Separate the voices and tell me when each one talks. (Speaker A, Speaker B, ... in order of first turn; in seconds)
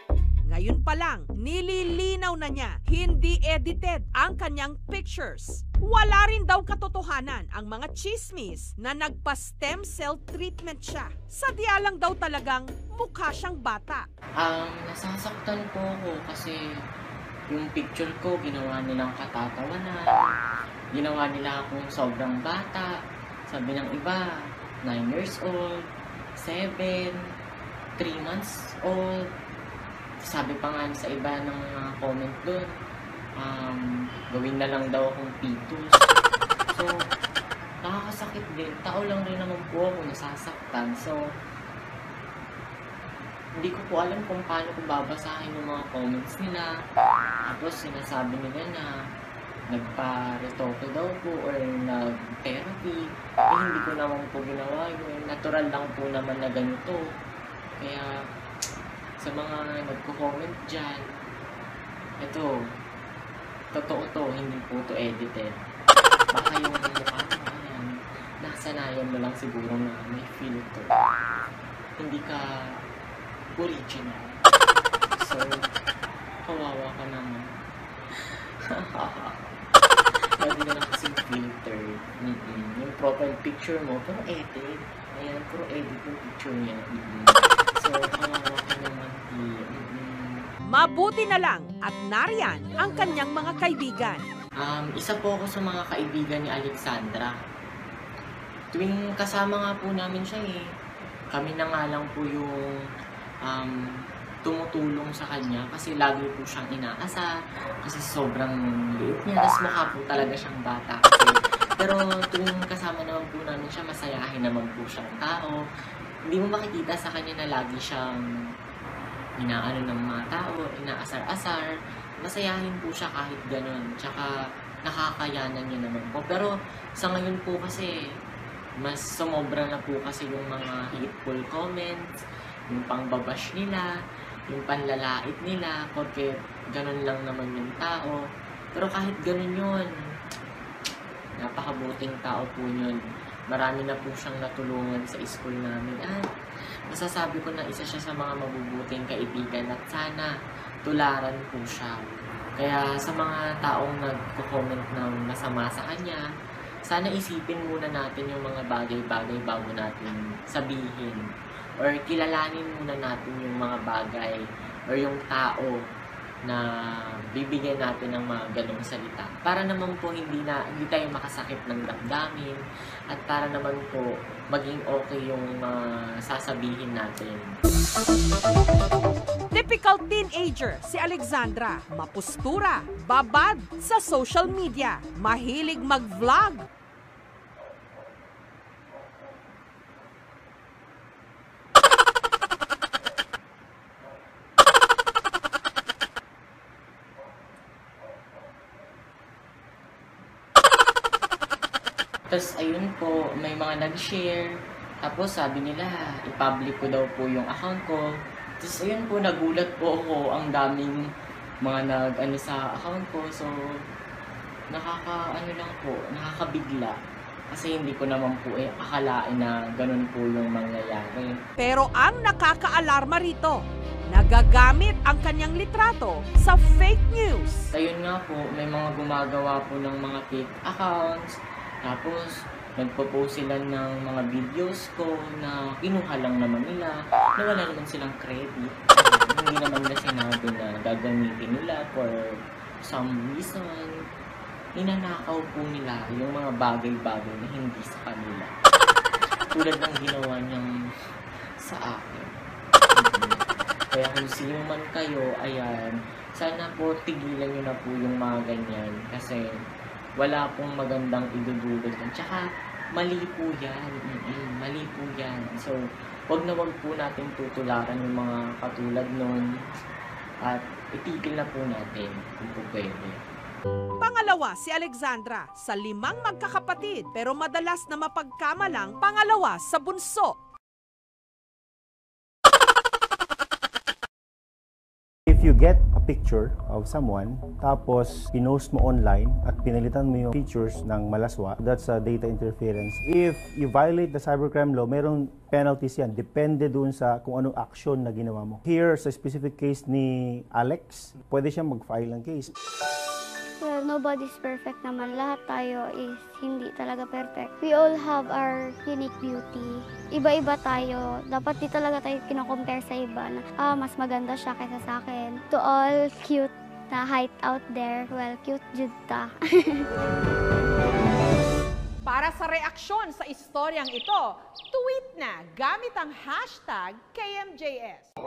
Speaker A: 0.5-14.1, 90.7-94.2, 179.5-186.6, 221.6-227.7, 274.0-280.4, 322.1-328.1
Speaker B: 14.4-16.6, 17.5-20.2, 20.9-24.3, 24.8-25.8, 26.4-27.2, 28.0-29.3, 30.2-32.7, 33.4-36.1, 36.7-37.0, 37.8-41.2, 43.6-46.7, 47.5-48.9, 49.7-57.0, 57.8-58.2, 59.2-61.0, 62.2-62.5, 63.7-65.6, 66.3-67.9, 68.4-70.9, 72.0-72.8, 73.5-74.4, 75.2-75.7, 76.4-77.6, 78.1-79.5, 80.4-90.5, 94.6-97.3, 98.7-100.6, 101.3-102.8, 103.4-107.3, 107.8-115.6, 116.3-118.2, 119.4-121.7, 122.2-124.3, 124.8-127.9, 128.8-132.1, 132.7-133.9, 134.5-138.2, 138.7-139.9, 141.4-143.0, 143.5-146.2, 146.9-150.3, 150.8-156.2, 156.9-161.2, 161.8-164.4, 164.9-165.8, 167.3-172.6, 173.1-177.6, 202.3-208.1, 208.6-211.1, 211.6-213.8, 214.7-216.9, 217.5-221.3, 227.7-231.3, 231.8-242.2, 242.8-244.0, 244.8-248.5, 249.5-250.7, 251.6-252.3, 252.9-259.4, 260.2-262.4, 263.0-269.4, 270.4-273.2
Speaker C: 285.3-302.5
Speaker D: 303.6-319.9